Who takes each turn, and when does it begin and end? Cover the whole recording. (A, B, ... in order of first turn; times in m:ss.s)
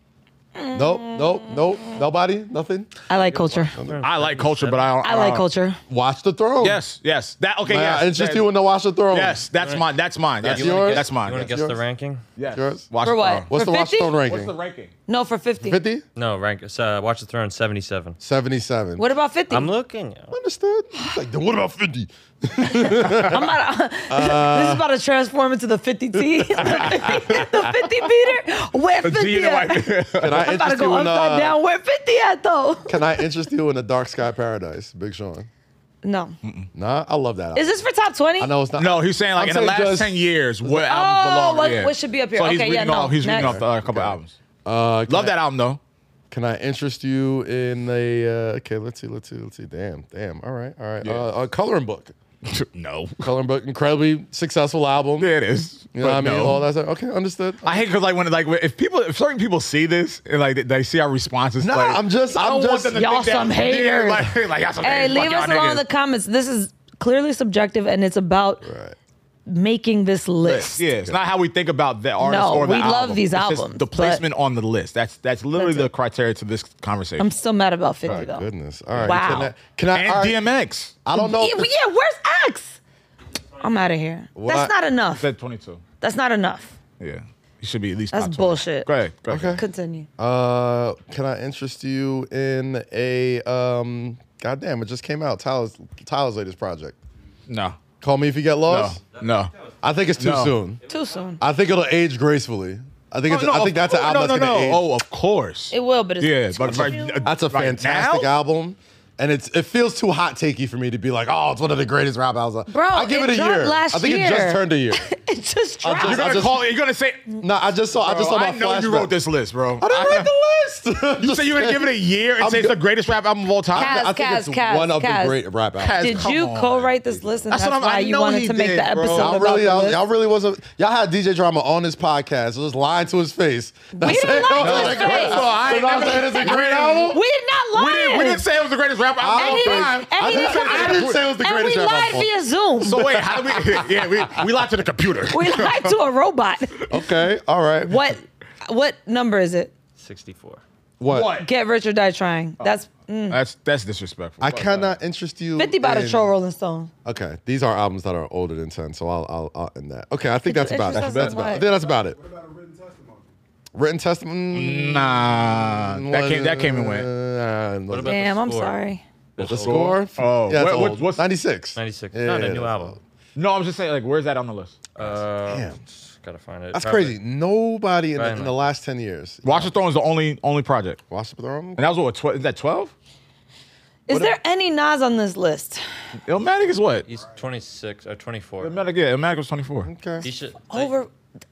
0:00.6-0:02.0 A
0:00.7-0:03.0 B
0:03.1-0:03.8 A
0:03.7-0:04.0 B
0:03.8-0:04.8 C
0:04.0-0:05.4 D
0:05.0-0:05.8 A
0:05.9-0:06.8 B
0:06.6-0:08.5 D
0:07.7-0:09.4 B
0:09.1-0:11.5 D
0:09.6-0:09.8 C
0:10.4-0:12.2 C
0:10.4-0:11.8 B
0:12.4-0:13.5 D
0:12.5-0:12.9 B
0:13.0-0:14.2 A
0:13.5-0:14.5 B
0:14.3-0:14.9 D
0:15.1-0:15.8 A
0:15.6-0:16.0 B
0:16.2-0:18.2 C
0:18.2-0:19.0 B
0:19.0-0:19.7 A
0:19.5-0:20.4 C
0:20.3-0:23.5 B
0:22.6-0:33.1 A
0:24.1-0:24.9 B
0:26.4-0:27.4 B
0:26.8-0:27.4 D
0:29.0-0:30.4 D
0:30.2-0:31.6 B
0:32.9-0:35.5 B
0:36.0-0:36.4 A
0:36.7-0:37.7 B
0:37.6-0:38.5 A
0:38.4-0:40.2 B
0:38.8-0:44.4 D
0:40.6-0:43.6 A
0:43.3-0:45.4 B
0:45.1-0:45.8 D
0:46.3-0:52.2 B
0:52.4-0:53.3 D
0:53.2-0:55.3 B
0:55.2-0:56.6 D
0:55.9-0:57.8 B
0:57.6-1:05.8 D
1:01.6-1:03.0 B
1:02.9-1:08.7 A
1:08.6-1:09.0 B
1:09.5-1:10.8 A
1:10.4-1:17.3 D
1:12.2-1:14.2 A
1:15.6-1:15.9 A
1:17.2-1:18.5 A
1:18.1-1:20.4 B
1:18.9-1:21.0 D
1:19.0-1:19.5 A
1:21.0-1:21.7 B
1:21.1-1:22.8 A
1:23.6-1:25.3 A
1:24.4-1:24.7 B
1:25.2-1:25.8 D
1:26.0-1:26.7 A
1:27.0-1:29.6 D
1:28.1-1:28.9 A
1:29.3-1:29.6 B
1:29.6-1:30.1 A
1:30.2-1:37.0 B
1:37.5-1:37.8 D
1:38.0-1:39.0 B
1:38.7-1:39.5 D
1:39.2-1:39.7 C
1:39.8-1:40.8 B
1:40.2-1:40.6 D
1:40.9-1:41.4 A
1:41.4-1:44.9 B
1:43.3-1:48.4 D
1:45.7-1:47.3 A
1:46.7-1:55.1 B
1:52.7-1:56.4 A
1:55.8-1:56.7 B
1:56.0-1:57.4 D
1:57.4-1:59.1 B
1:58.0-2:00.3 D
1:59.8-2:02.8 B
2:01.2-2:04.0 D
2:03.7-2:06.3 B
2:03.8-2:05.4 A
2:05.8-2:06.9 D
2:06.0-2:10.0 A
2:07.5-2:09.3 D
2:09.1-2:17.2 B
2:13.9-2:16.6 A
2:14.6-2:17.2 D
2:17.1-2:18.4 A
2:17.7-2:21.2 D
2:19.2-2:22.3 B
2:19.4-2:23.1 A
2:22.8-2:26.0 D
2:23.0-2:23.9 B
2:25.3-2:27.0 A
2:26.9-2:28.0 B
2:27.8-2:29.7 A
2:30.0-2:30.6 C
2:31.0-2:31.4 B
2:31.1-2:31.5 D
2:31.4-2:33.4 A
2:33.3-2:35.0 D
2:34.4-2:36.3 B
2:35.6-2:36.9 A
2:37.0-2:42.2 B
2:40.5-2:41.7 A
2:40.9-2:41.4 D
2:41.4-2:43.4 E
2:43.8-2:48.2 B
2:44.5-2:47.1 D
2:47.9-2:48.8 C
2:48.1-2:49.0 A
2:49.4-2:50.0 C
2:49.4-2:51.3 D
2:49.4-2:53.0 B
2:51.8-2:53.0 C
2:53.4-2:54.8 D
2:55.0-2:57.2 C
2:55.0-2:55.8 B
2:56.7-2:59.7 B
2:58.2-2:58.6 C
2:59.4-3:01.0 D
3:01.1-3:01.8 B
3:01.8-3:02.9 D
3:04.1-3:05.8 A
3:04.1-3:04.4 B
3:06.3-3:07.1 D
3:07.1-3:08.8 C
3:08.6-3:09.9 D
3:09.8-3:10.3 B
3:10.2-3:11.0 C
3:10.7-3:11.1 A